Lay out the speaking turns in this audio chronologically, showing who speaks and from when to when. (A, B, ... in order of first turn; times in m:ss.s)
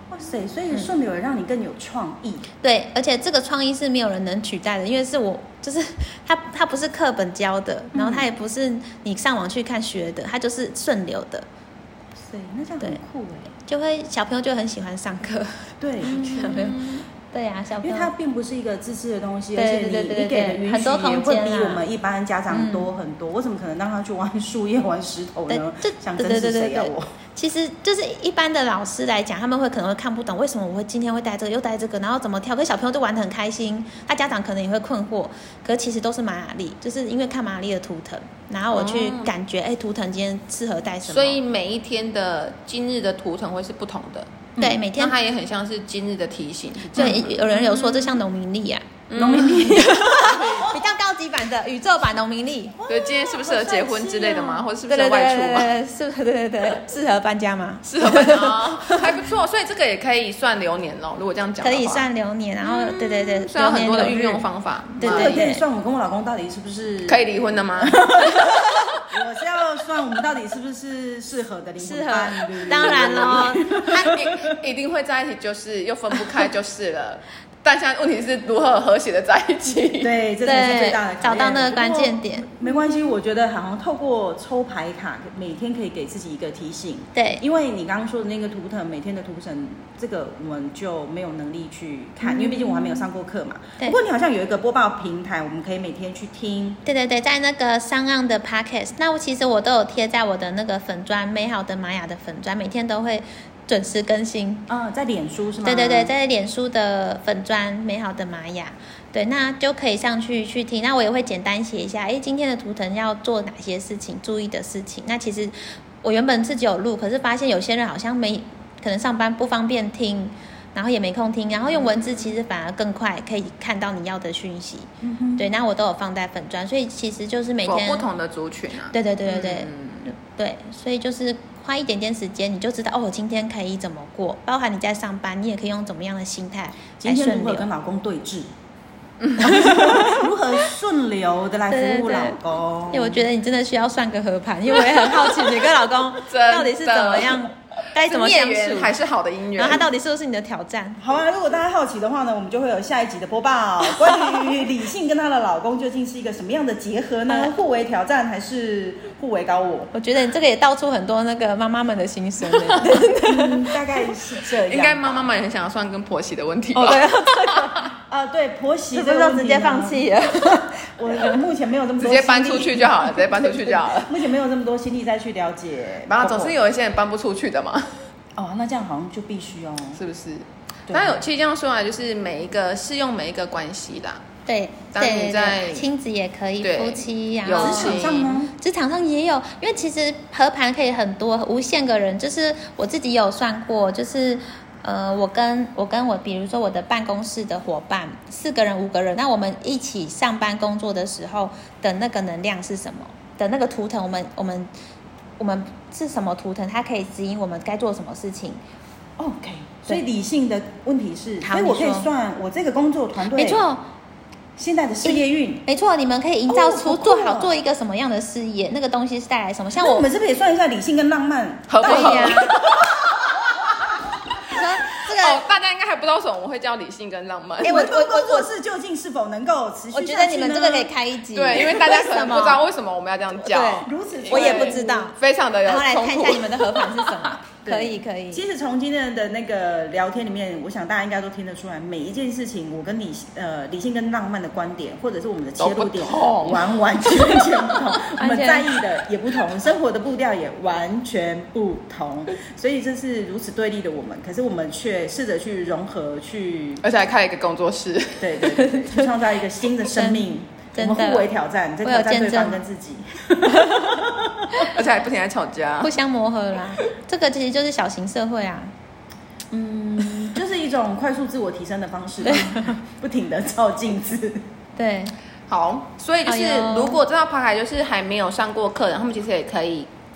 0:00.1-0:02.5 A
0:02.6-0:11.5 B
0:07.9-0:08.3 A
0:12.2-0:13.5 A
0:13.6-0:18.1 B
0:15.8-0:16.8 A
0:16.1-0:16.9 C
0:17.8-0:27.1 A
0:19.6-0:21.8 B
0:22.5-0:22.9 B
0:25.5-0:41.4 B
0:38.7-0:39.3 C
0:41.1-0:48.2 C
0:44.6-0:44.9 A
0:44.6-0:45.2 B
0:46.9-0:52.8 B
0:47.0-0:47.2 A
0:49.1-0:49.8 C
0:49.1-0:50.6 A
0:50.3-0:50.7 C
0:52.8-0:54.7 A
0:52.9-0:55.7 C
0:54.9-0:59.2 B
0:57.8-1:02.1 C
1:01.6-1:04.4 B
1:02.6-1:05.4 C
1:05.0-1:05.6 B
1:05.0-1:14.6 A
1:07.1-1:09.0 C
1:11.8-1:14.2 B
1:14.0-1:20.2 C
1:20.0-1:36.8 A
1:20.4-1:22.5 B
1:27.2-1:27.4 B
1:32.2-1:33.1 B
1:36.8-1:44.7 B
1:44.7-1:46.1 A
1:45.6-2:08.1 B
2:05.0-2:05.5 A
2:07.7-2:10.1 C
2:08.9-2:17.7 B
2:17.0-2:18.5 A
2:19.2-2:19.6 C
2:19.4-2:20.2 B
2:19.4-2:23.3 A
2:21.7-2:28.9 B
2:24.9-2:29.9 C
2:29.6-2:31.0 B
2:31.0-2:39.9 A
2:39.9-2:44.1 B
2:42.7-2:45.4 A
2:44.6-2:47.8 C
2:46.7-2:47.9 B
2:48.0-2:50.1 A
2:48.9-2:51.4 B
2:51.0-2:56.6 A
2:52.0-2:54.2 C
2:56.1-2:58.1 C
2:58.4-3:00.0 A
3:00.0-3:04.2 C
3:00.9-3:01.2 A
3:04.5-3:24.7 B
3:04.9-3:05.9 C
3:06.6-3:08.4 C
3:07.6-3:08.5 A
3:25.4-3:28.6 B
3:29.2-3:33.6 A
3:31.4-3:32.1 B
3:33.3-3:33.8 B
3:34.6-3:35.6 A
3:35.0-3:40.0 B
3:36.5-3:37.6 A
3:39.8-3:43.7 A
3:41.7-3:43.8 C
3:41.8-3:42.6 B
3:44.5-3:45.4 B
3:45.1-3:47.9 C
3:47.6-3:50.9 A
3:47.6-3:48.5 B
3:49.9-3:52.6 B
3:51.4-3:57.3 C
3:53.4-3:58.4 B
3:53.9-3:55.1 A
3:57.6-4:16.8 A
4:05.6-4:07.8 C
4:08.2-4:08.7 B
4:16.8-4:18.4 C
4:18.2-4:24.7 A
4:18.5-4:19.0 B
4:19.9-4:21.3 B
4:21.8-4:22.6 B
4:24.6-4:25.9 C
4:25.8-4:28.7 B
4:29.5-4:34.4 A
4:32.2-4:32.7 B
4:34.8-4:35.1 B
4:35.5-4:39.9 C
4:36.2-4:37.0 B